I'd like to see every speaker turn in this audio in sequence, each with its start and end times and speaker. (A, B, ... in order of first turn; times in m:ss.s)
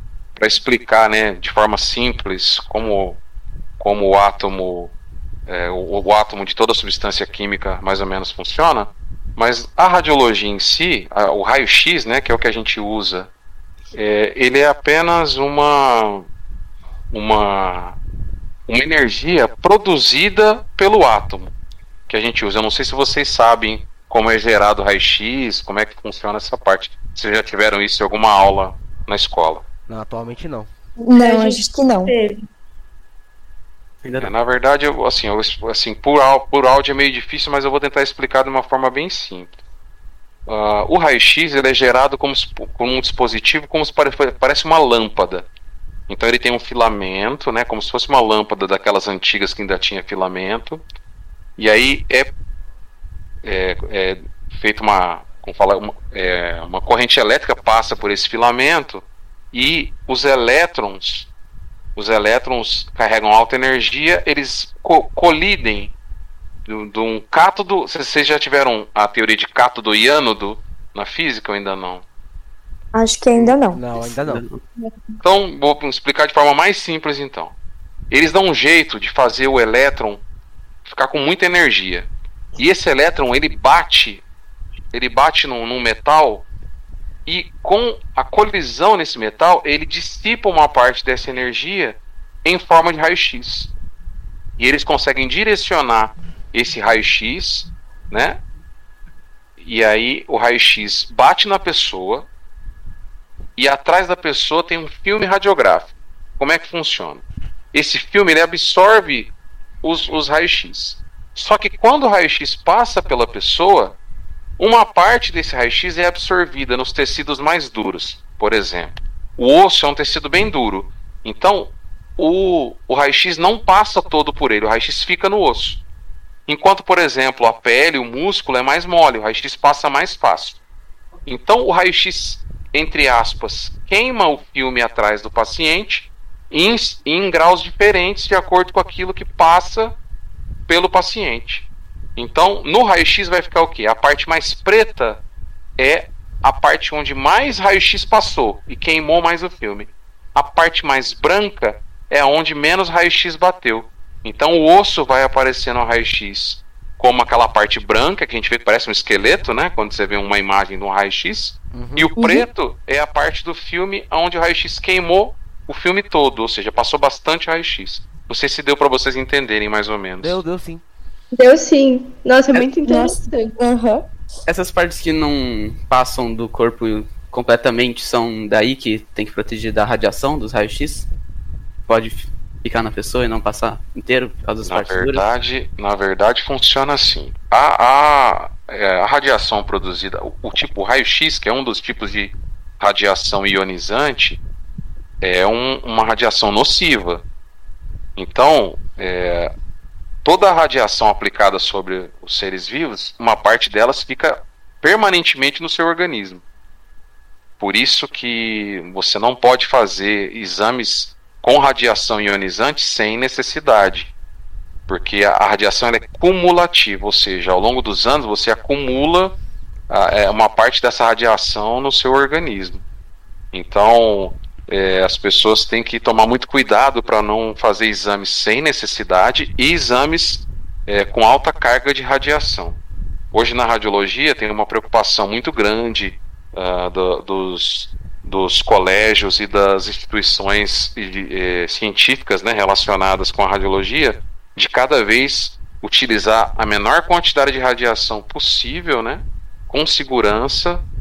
0:00.4-0:03.2 A
0:03.8-0:04.9 A
0:05.5-0:13.3 A
0:13.9-0:16.3 A
0:17.1-0:18.0 A
0:18.7-0:21.5 A
0:22.1-0:29.6 A
0:29.9-0:30.7 B
0:31.0-0:32.1 C
0:31.2-0:32.4 D
0:34.0-0:34.3 E
0:34.2-0:39.6 A
0:40.5-0:45.5 A
0:46.1-0:50.8 A
0:51.6-0:52.3 A
0:53.4-1:01.3 A
1:02.0-1:05.9 A
1:06.7-1:12.0 A
1:12.9-1:13.8 C
1:13.4-1:14.4 B
1:14.0-1:14.6 E
1:15.2-1:17.5 A
1:18.1-1:20.2 A
1:20.8-1:24.2 A
1:24.9-1:26.5 A
1:27.3-1:33.7 A
1:34.6-1:38.4 A
1:39.6-1:42.3 A
1:43.6-1:54.0 A
1:54.6-2:05.8 A
2:06.5-2:10.6 A
2:11.3-2:20.0 A
2:20.7-2:25.2 A
2:25.8-2:50.4 A
2:41.7-2:42.1 B
2:42.2-2:42.4 C
2:50.2-2:50.8 B
2:51.3-2:53.5 D
2:52.8-2:54.0 C
2:54.5-3:01.1 E
3:01.9-3:05.2 E
3:04.6-3:14.4 A
3:15.2-3:17.2 A
3:18.2-3:19.5 A
3:20.2-3:26.4 A
3:27.6-3:34.1 A
3:34.9-3:39.4 A
3:39.9-3:42.8 A
3:43.5-3:52.8 A
3:53.3-4:10.8 A